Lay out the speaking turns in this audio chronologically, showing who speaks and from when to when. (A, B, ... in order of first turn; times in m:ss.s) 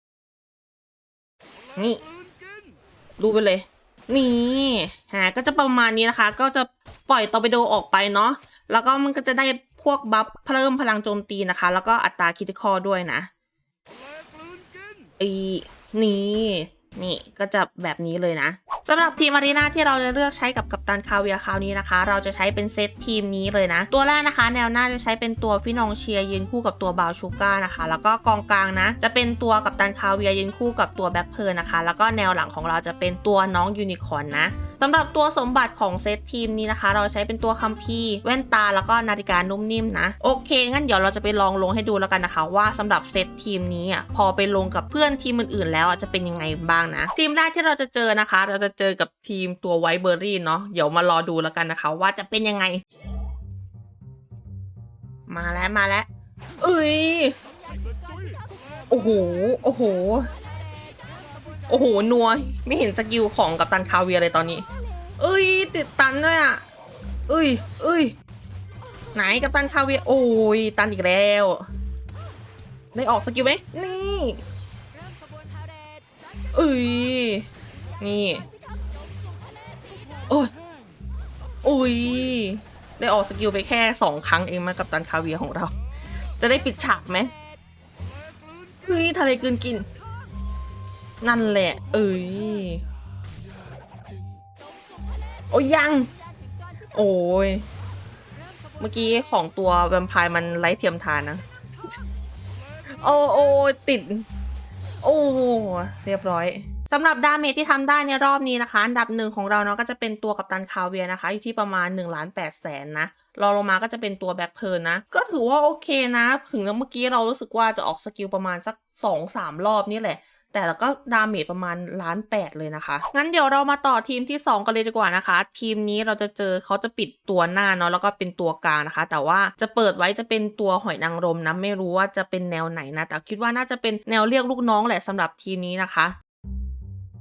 0:01.8-0:02.0 A
0:03.2-0:13.3 A
0:15.2-0:52.8 A
0:55.3-0:56.1 A
0:56.6-0:57.3 A
0:58.9-1:00.3 A
1:01.7-1:04.6 A
1:05.2-1:06.6 A
1:07.3-1:08.1 A
1:09.1-1:11.6 A
1:12.9-1:14.4 A
1:16.5-1:17.4 A
1:18.0-1:18.4 A
1:21.6-1:25.7 A
1:26.4-1:27.3 A
1:28.8-1:29.8 A
1:31.2-1:32.8 A
1:35.5-1:36.1 A
1:36.9-1:37.6 A
1:38.8-1:42.0 A
1:42.9-1:44.2 A
1:45.0-2:16.1 A